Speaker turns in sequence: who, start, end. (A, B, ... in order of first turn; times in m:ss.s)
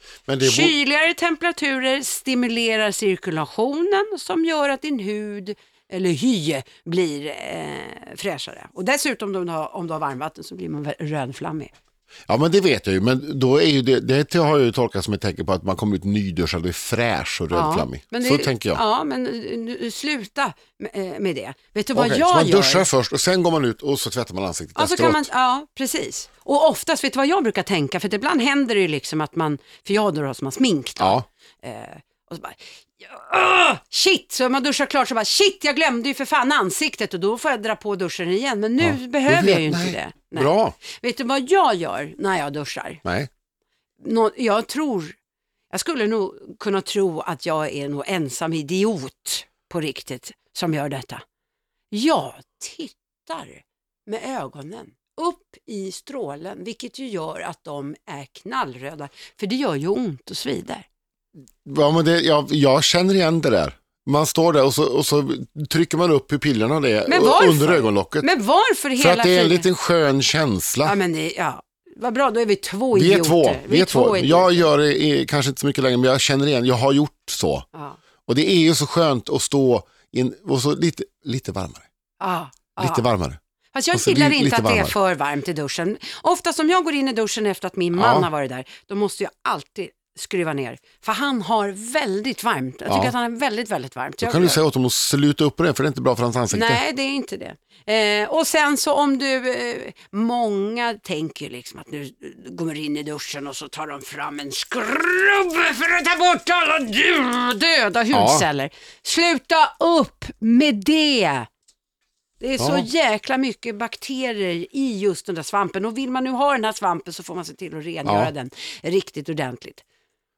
0:00.3-0:00.7 A
0:00.4-0:11.7 B
0:12.3-0:18.8 A
0:17.5-0:22.8 B
0:21.9-0:25.3 A
0:24.8-0:43.0 B
0:31.0-0:31.2 A
0:38.8-0:40.8 A
0:43.0-0:43.3 A
0:44.0-0:45.2 B
0:45.7-0:51.2 B
0:51.9-1:00.8 B
1:01.6-1:08.3 A
1:07.1-1:09.6 B
1:09.0-1:11.0 A
1:10.8-1:14.7 B
1:12.9-1:17.6 A
1:18.3-1:21.8 A
1:22.2-1:23.1 B
1:22.8-1:23.4 A
1:23.7-1:34.6 B
1:23.9-1:24.9 A
1:28.0-1:28.3 A
1:32.9-1:33.1 A
1:34.2-1:36.8 A
1:36.5-1:51.5 B
1:48.1-1:48.4 A
1:52.4-1:59.8 B
1:52.6-1:52.8 A
1:58.0-1:58.3 A